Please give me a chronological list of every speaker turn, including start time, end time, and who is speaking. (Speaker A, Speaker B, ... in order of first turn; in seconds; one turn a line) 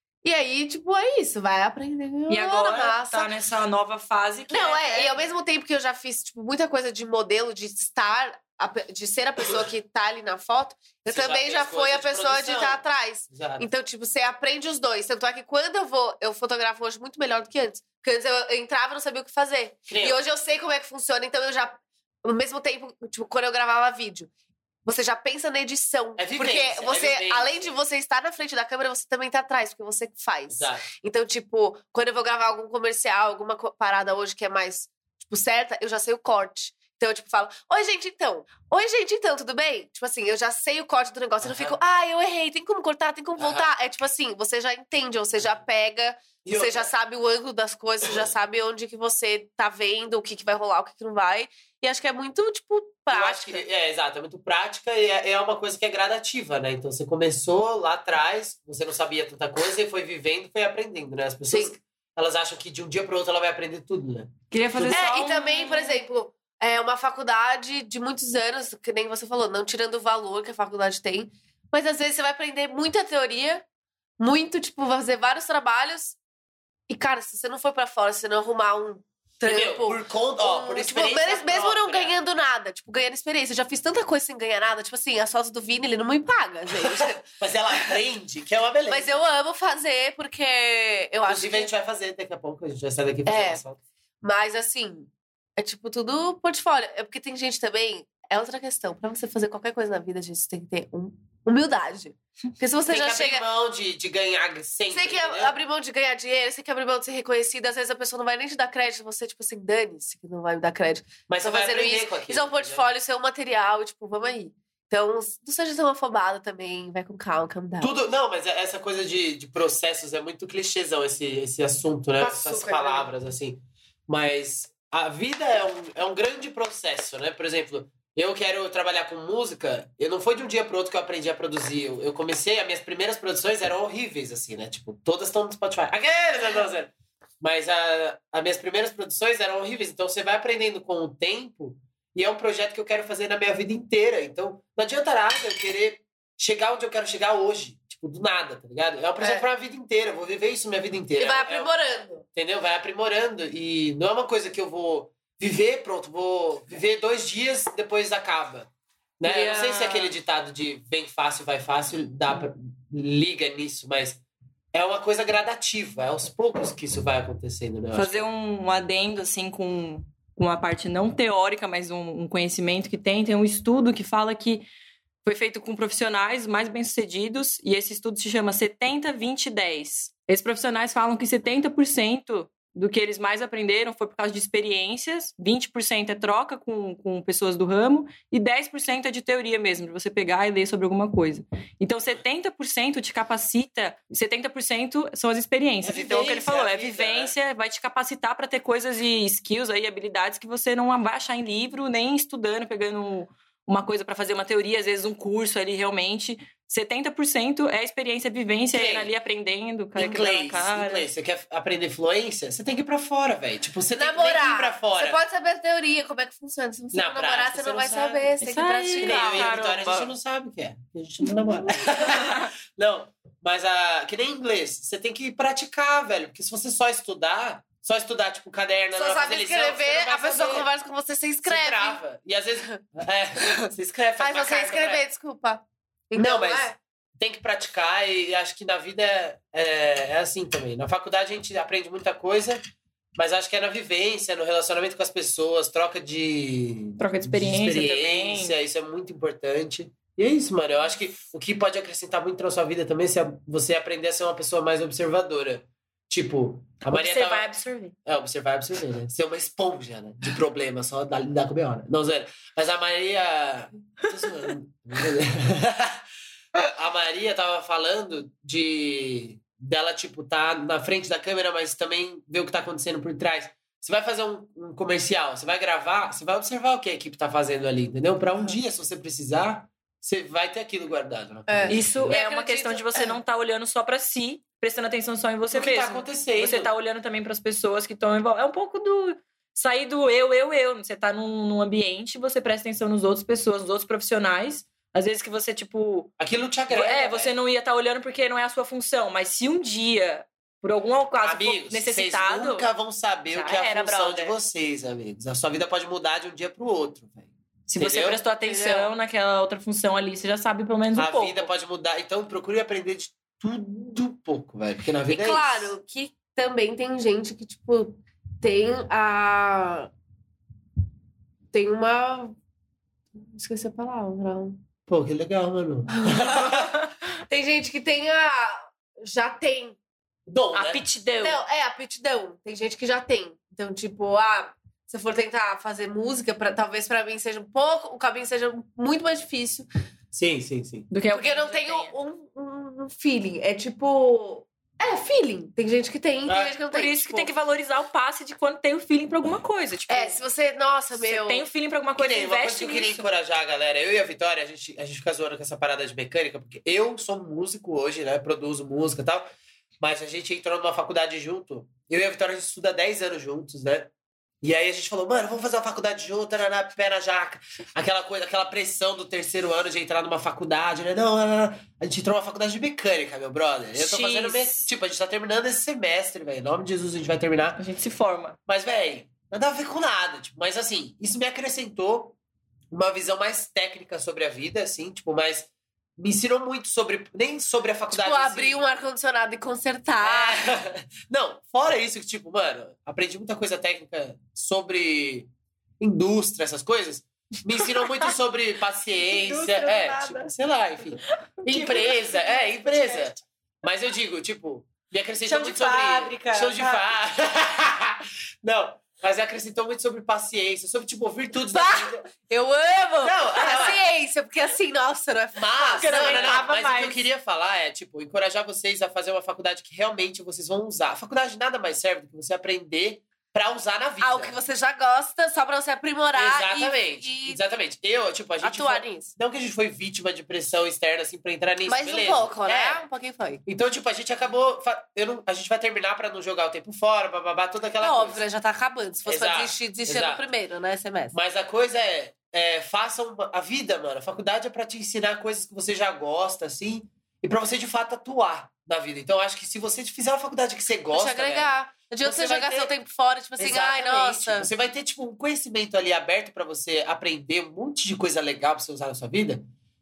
Speaker A: 0.2-3.3
Speaker B: 2.3-5.2
Speaker A: 4.5-24.3
Speaker C: 11.1-13.7
Speaker C: 19.9-20.2
Speaker A: 24.8-53.6
Speaker C: 26.2-27.7
Speaker C: 30.5-30.8
Speaker C: 41.4-41.8
Speaker C: 43.4-43.7
Speaker C: 46.4-46.9
Speaker C: 53.1-65.1
Speaker A: 61.5-61.8
Speaker B: 64.5-66.0
Speaker A: 64.9-73.6
Speaker A: 74.2-76.2
Speaker A: 76.9-87.2
Speaker C: 79.4-82.2
Speaker C: 86.8-89.2
Speaker A: 88.9-91.7
Speaker C: 91.3-93.8
Speaker A: 93.2-93.6
Speaker A: 94.2-103.5
Speaker C: 102.9-105.5
Speaker A: 104.9-117.9
Speaker C: 111.3-112.8
Speaker C: 117.8-151.7
Speaker A: 122.2-123.1
Speaker A: 149.2-149.4
Speaker A: 151.2-152.2
Speaker C: 152.3-164.2
Speaker B: 159.2-160.1
Speaker C: 164.7-168.2
Speaker B: 167.9-174.7
Speaker B: 175.2-211.1
Speaker C: 195.8-197.3
Speaker C: 208.7-209.1
Speaker C: 209.9-215.2
Speaker A: 213.9-219.5
Speaker C: 216.9-218.3
Speaker B: 218.4-220.1
Speaker C: 219.0-230.7
Speaker A: 228.9-232.0
Speaker C: 231.4-235.0
Speaker A: 234.2-236.8
Speaker C: 236.2-242.6
Speaker C: 243.2-257.5
Speaker B: 247.0-248.6
Speaker B: 256.9-257.9
Speaker C: 258.1-266.0
Speaker C: 266.6-282.2
Speaker A: 281.5-283.2
Speaker B: 281.7-296.1
Speaker C: 285.5-286.7
Speaker C: 296.2-297.3
Speaker B: 296.7-302.7
Speaker C: 301.2-308.2
Speaker B: 303.3-304.3
Speaker B: 307.7-311.5
Speaker A: 308.4-308.9
Speaker C: 310.9-315.7
Speaker A: 315.1-319.9
Speaker A: 321.5-322.4
Speaker A: 323.2-324.6
Speaker C: 324.9-326.8
Speaker A: 326.0-326.7
Speaker A: 327.3-329.8
Speaker C: 330.3-330.8
Speaker B: 330.5-331.4
Speaker A: 331.2-339.6
Speaker C: 340.1-340.9
Speaker B: 340.9-341.9
Speaker A: 341.1-347.3
Speaker C: 346.2-346.6
Speaker B: 346.7-350.2
Speaker A: 349.9-351.4
Speaker B: 350.9-353.1
Speaker C: 352.0-359.3
Speaker C: 359.8-363.9
Speaker C: 364.4-377.6
Speaker B: 373.7-374.7
Speaker B: 377.6-378.4
Speaker C: 378.5-382.1
Speaker C: 382.7-388.6
Speaker A: 387.9-390.5
Speaker C: 390.0-395.3
Speaker C: 395.8-412.0
Speaker B: 397.6-398.1
Speaker B: 399.0-400.3
Speaker B: 401.4-403.1
Speaker B: 405.2-406.9
Speaker A: 411.5-416.4
Speaker C: 413.0-413.8
Speaker C: 415.3-424.4
Speaker B: 415.8-417.0
Speaker A: 424.0-427.4
Speaker C: 426.1-432.8
Speaker A: 428.4-429.1
Speaker A: 431.7-433.4
Speaker C: 433.4-438.2
Speaker A: 437.8-441.1
Speaker C: 439.0-440.2
Speaker C: 441.1-452.7
Speaker A: 450.9-454.5
Speaker C: 453.4-459.4